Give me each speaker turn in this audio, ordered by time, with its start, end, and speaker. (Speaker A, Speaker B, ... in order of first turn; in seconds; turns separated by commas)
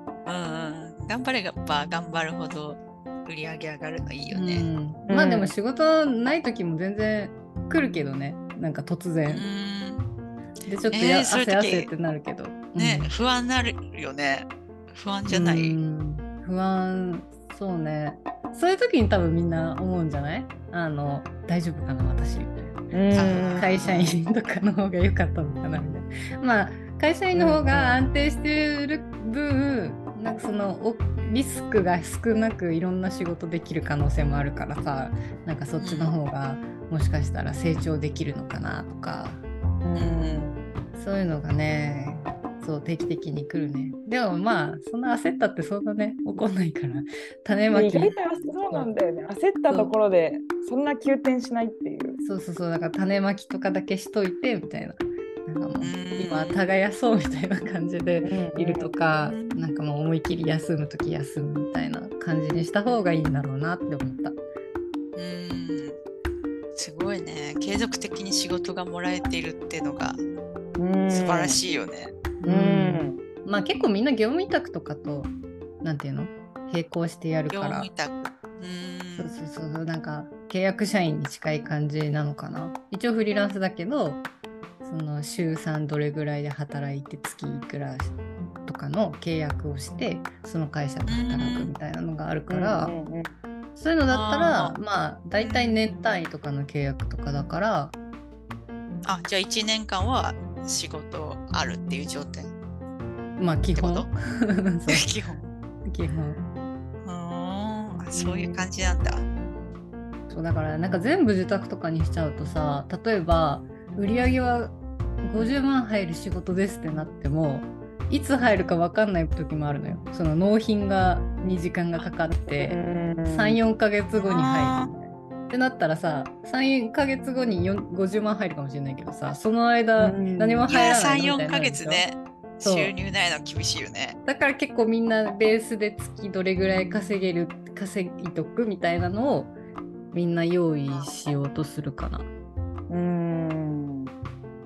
Speaker A: 0.3-4.7, Speaker B: 4.3-9.5, Speaker C: 5.1-5.5, Speaker A: 9.3-10.1, Speaker B: 10.7-13.1, Speaker A: 10.9-11.9, Speaker A: 12.8-15.8, Speaker B: 15.3-22.8, Speaker C: 22.9-23.7, Speaker A: 23.1-24.2, Speaker B: 23.6-39.4, Speaker C: 27.3-28.0, Speaker A: 35.8-36.1, Speaker C: 39.8-40.6, Speaker A: 40.0-40.5, Speaker B: 41.0-48.9, Speaker C: 47.7-52.2, Speaker B: 52.2-64.4, Speaker A: 55.8-56.6, Speaker C: 58.2-58.9, Speaker A: 59.2-59.6, Speaker A: 65.2-66.0, Speaker A: 66.8-70.2, Speaker C: 70.8-71.6, Speaker A: 71.1-72.2, Speaker B: 72.4-75.3, Speaker C: 72.5-73.2, Speaker B: 75.8-77.9, Speaker A: 77.5-79.3, Speaker B: 79.2-84.2, Speaker B: 84.8-92.9, Speaker A: 91.1-91.7, Speaker C: 92.5-93.3, Speaker B: 93.8-97.9, Speaker A: 94.1-94.8, Speaker A: 95.4-95.8, Speaker A: 99.0-102.5, Speaker B: 103.4-105.1, Speaker A: 103.7-104.1, Speaker A: 104.9-105.5, Speaker B: 105.9-106.4, Speaker A: 107.0-109.2, Speaker C: 108.1-108.6, Speaker B: 110.3-132.1, Speaker C: 122.6-123.6, Speaker A: 124.2-124.9, Speaker C: 130.0-130.7, Speaker A: 130.7-134.2, Speaker B: 132.6-132.9, Speaker B: 134.3-139.5, Speaker B: 140.1-142.3, Speaker C: 142.9-144.1